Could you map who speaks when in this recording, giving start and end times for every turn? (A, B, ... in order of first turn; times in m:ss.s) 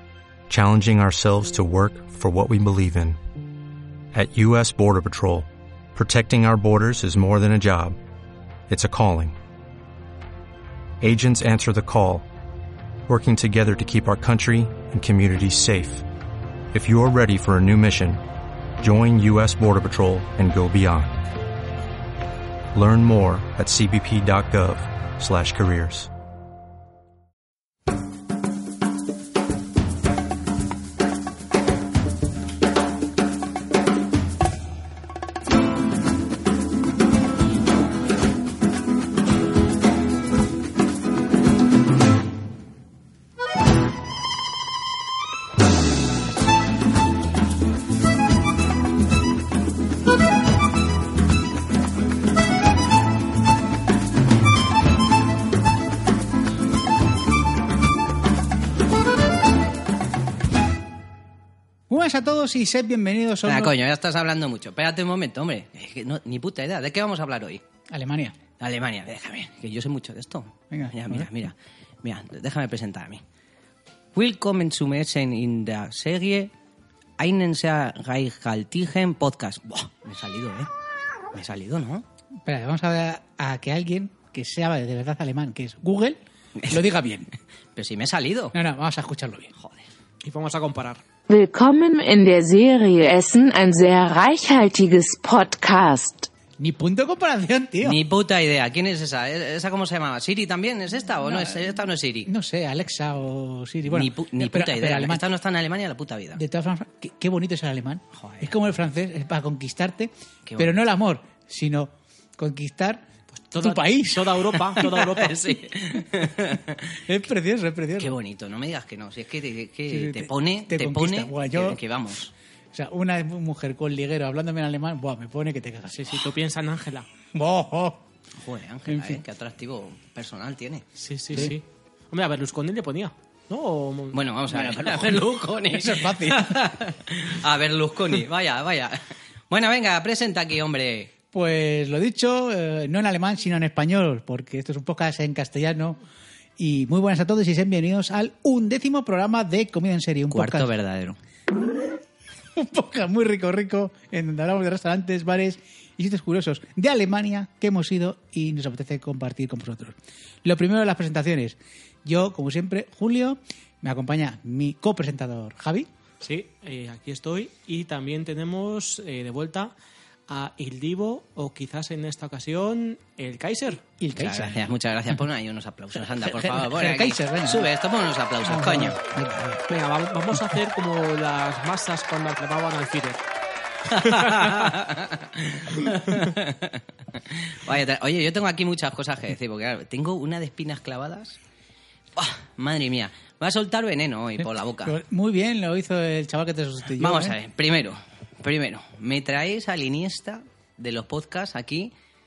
0:00.5-0:03.2 A
0:04.1-0:08.0 A
0:08.7-0:09.4 A
0:11.0-0:12.2 A
0:13.1-0:16.0 A
0:16.7-0:18.2 A
0:18.8-0:21.2 A
0:22.7-0:26.1 A
1:01.9-1:03.7 B
1:03.4-1:07.6 C
1:07.9-1:08.4 B
1:08.6-1:13.2 C
1:10.7-1:11.3 B
1:14.1-1:16.5 C
1:17.2-1:20.7 C
1:21.3-1:22.0 C
1:22.4-1:27.3 B
1:27.8-1:28.6 C
1:28.5-1:29.5 B
1:29.6-1:29.8 C
1:30.2-1:31.0 D
1:31.3-1:36.3 E
1:36.6-1:38.0 B
1:37.8-1:42.3 C
1:41.3-1:41.6 B
1:42.2-1:45.2 B
1:43.9-1:46.4 C
1:46.3-1:53.0 B
1:48.1-1:48.6 C
1:50.4-1:50.8 C
1:53.4-1:55.5 D
1:53.6-1:54.9 B
1:54.7-1:57.0 C
1:57.0-1:58.1 B
1:58.0-2:02.3 C
1:59.9-2:01.8 B
2:02.7-2:06.2 B
2:05.9-2:07.1 D
2:07.3-2:08.0 B
2:08.4-2:10.8 C
2:08.9-2:09.2 B
2:11.0-2:14.2 D
2:14.1-2:21.1 C
2:14.5-2:16.8 B
2:21.3-2:26.0 B
2:26.6-2:30.7 B
2:30.3-2:31.2 C
2:32.5-2:45.9 B
2:46.2-2:49.7 D
2:50.3-2:53.8 D
2:54.0-2:54.6 B
2:54.1-2:59.0 C
2:56.2-2:57.7 B
2:58.4-2:59.7 B
2:59.7-3:03.2 D
3:03.9-3:11.4 C
3:04.0-3:04.7 D
3:12.2-3:15.0 C
3:14.8-3:17.4 B
3:17.0-3:21.9 C